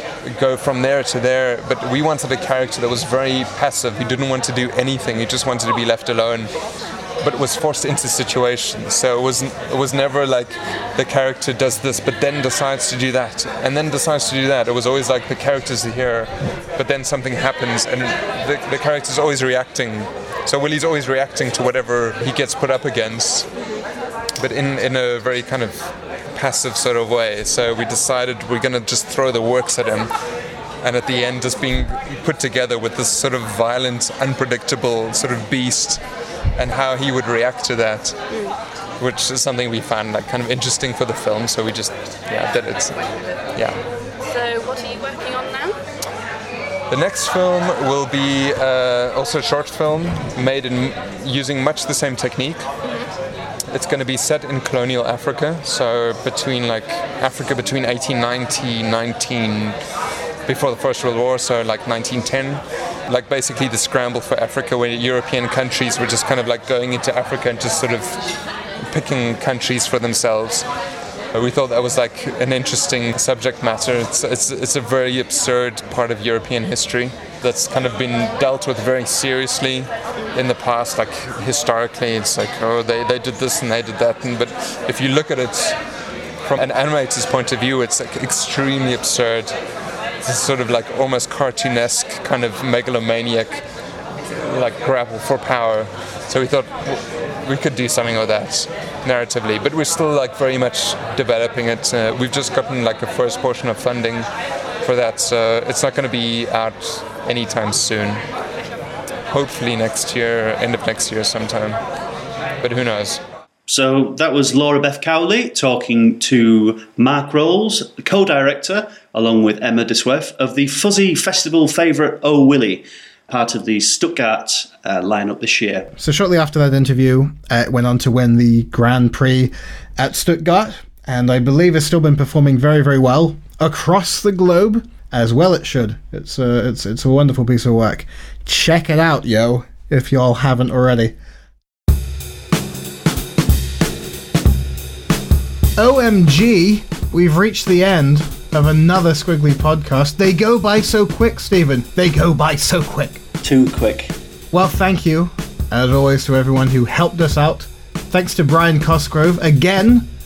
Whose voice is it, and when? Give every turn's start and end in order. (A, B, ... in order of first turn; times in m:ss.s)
0:00.2-0:06.5 A
0:07.2-0:23.5 A
0:24.4-0:30.1 A
0:30.8-0:36.0 A
0:36.6-0:38.2 A
0:38.3-0:38.6 B
0:39.0-0:43.0 A
0:43.0-0:43.4 B
0:43.5-0:43.8 A
0:44.2-0:45.8 B
0:46.9-0:52.6 A
0:52.8-0:53.1 B
0:53.7-0:59.8 A
1:00.4-1:08.2 A
1:08.8-1:10.7 A
1:11.3-1:25.8 A
1:26.4-1:29.6 A
1:30.2-1:33.6 A
1:34.2-1:44.3 A
1:44.8-1:48.2 A
1:49.3-1:51.8 A
1:52.6-1:53.2 A
1:53.7-2:05.9 C
2:06.0-2:21.1 D
2:25.8-2:33.2 D
2:33.4-2:34.1 C
2:34.5-2:40.1 D